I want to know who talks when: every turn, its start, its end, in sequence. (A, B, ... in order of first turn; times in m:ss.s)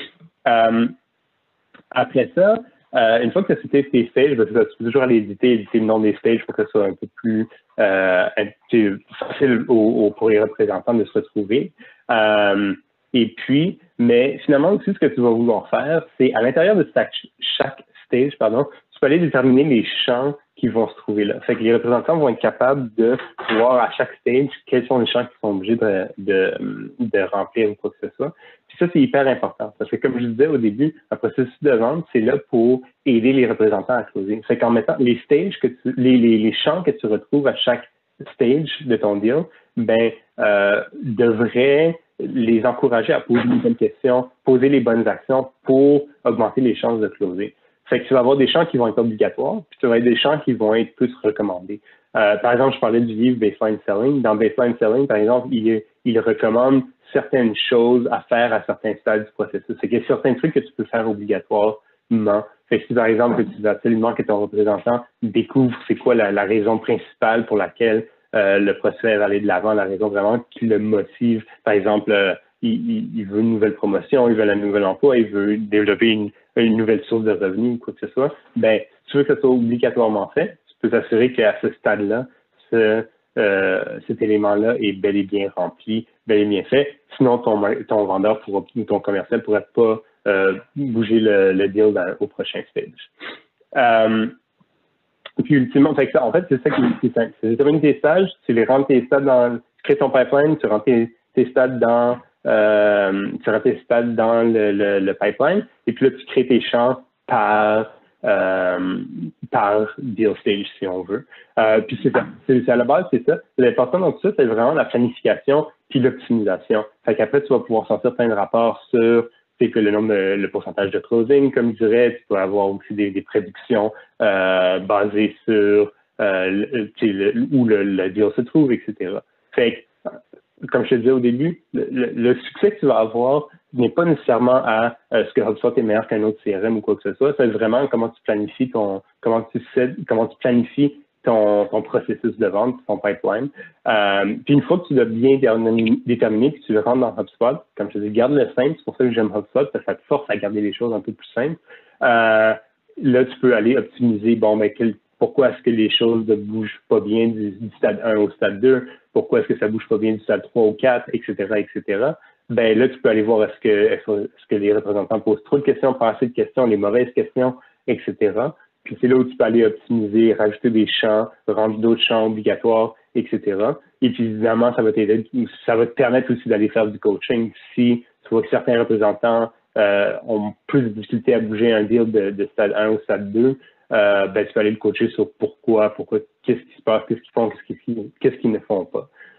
0:00.4-0:01.0 A
0:01.9-1:33.1 A
1:33.7-1:34.4 A
1:35.4-2:09.9 A
2:10.6-3:09.1 A